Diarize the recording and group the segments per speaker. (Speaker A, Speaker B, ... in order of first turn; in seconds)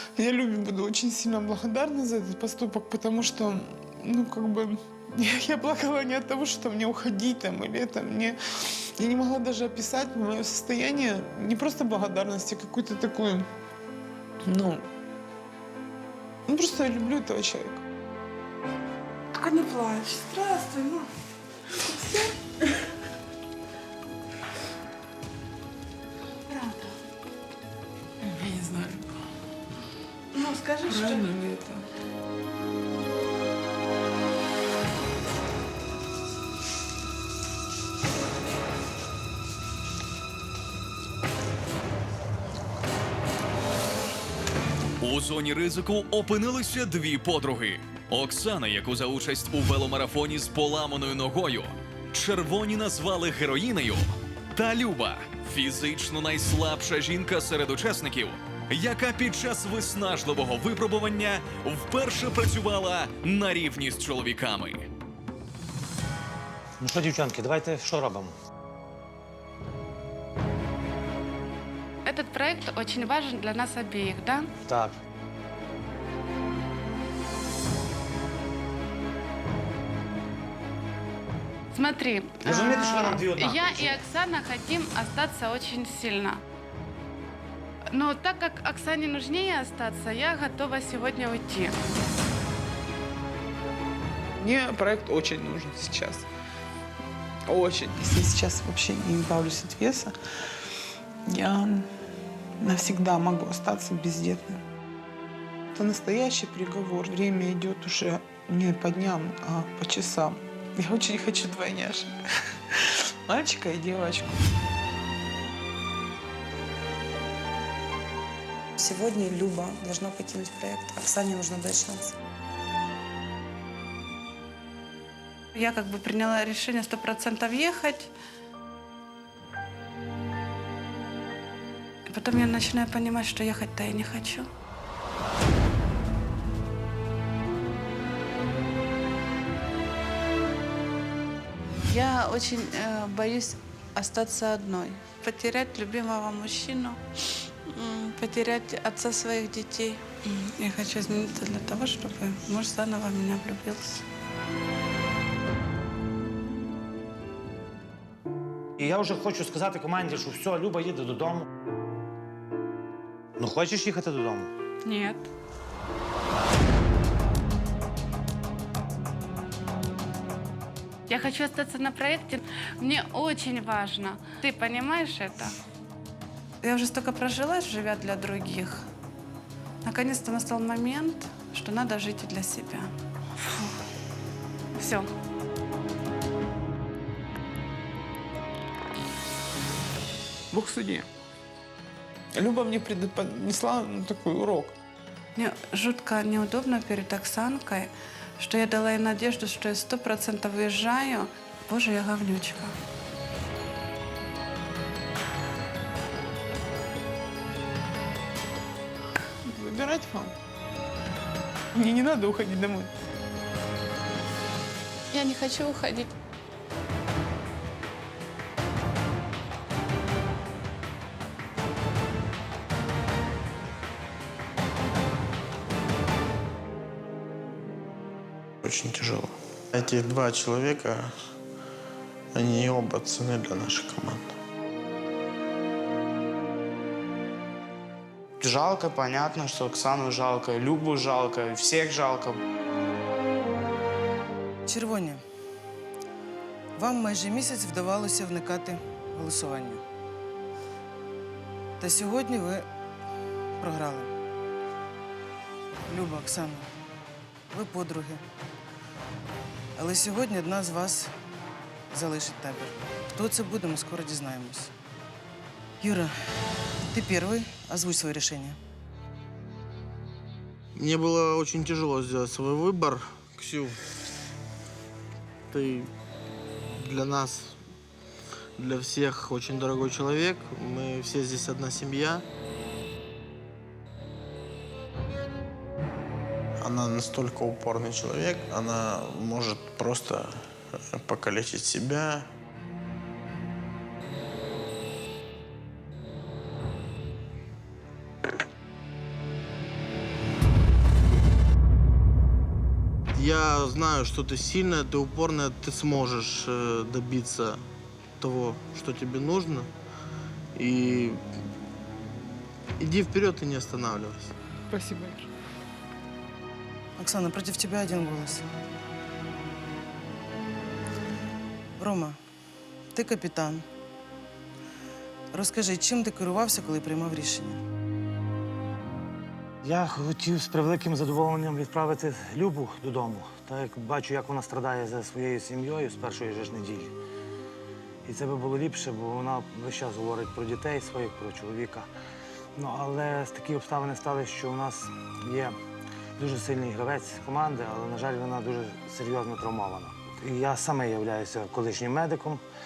Speaker A: 0.2-13.5, 14.4-14.8, 16.5-17.8, 28.2-29.0, 30.9-31.8, 94.4-96.3, 97.5-100.1, 101.2-101.9, 102.6-104.6, 105.7-112.1, 112.7-114.5, 190.5-191.1, 192.3-194.8, 209.4-210.3, 211.7-212.9, 314.7-315.3
Speaker B: 19.3-21.1, 21.8-22.3, 26.5-27.0, 30.3-31.4, 72.0-74.5, 81.7-86.4, 87.9-91.8, 125.5-128.1, 132.1-134.5, 141.9-147.0, 147.7-154.0, 164.8-165.2, 171.1-175.5, 176.6-178.9, 179.8-183.8, 184.7-185.1, 195.4-202.8, 215.1-216.1
Speaker C: 45.0-64.9
Speaker D: 66.8-68.3, 74.7-74.9, 82.4-84.0, 158.8-161.5, 163.4-164.5, 329.6-336.9, 338.0-341.9, 342.6-345.5, 346.2-352.4
Speaker E: 118.8-122.1
Speaker F: 228.6-231.1, 232.3-234.3, 270.8-273.8, 275.5-275.9, 276.7-277.6, 278.6-282.2, 286.6-292.2, 303.1-307.6, 308.2-309.7, 310.6-311.2, 312.8-314.3
Speaker G: 238.4-242.4
Speaker H: 244.7-245.2, 246.8-249.8, 251.8-252.7, 253.6-254.1, 255.9-256.7, 257.5-258.2, 259.8-261.1, 261.9-264.7, 265.8-266.1, 266.9-268.6, 317.0-318.4, 321.8-322.2, 322.9-323.6, 325.3-327.6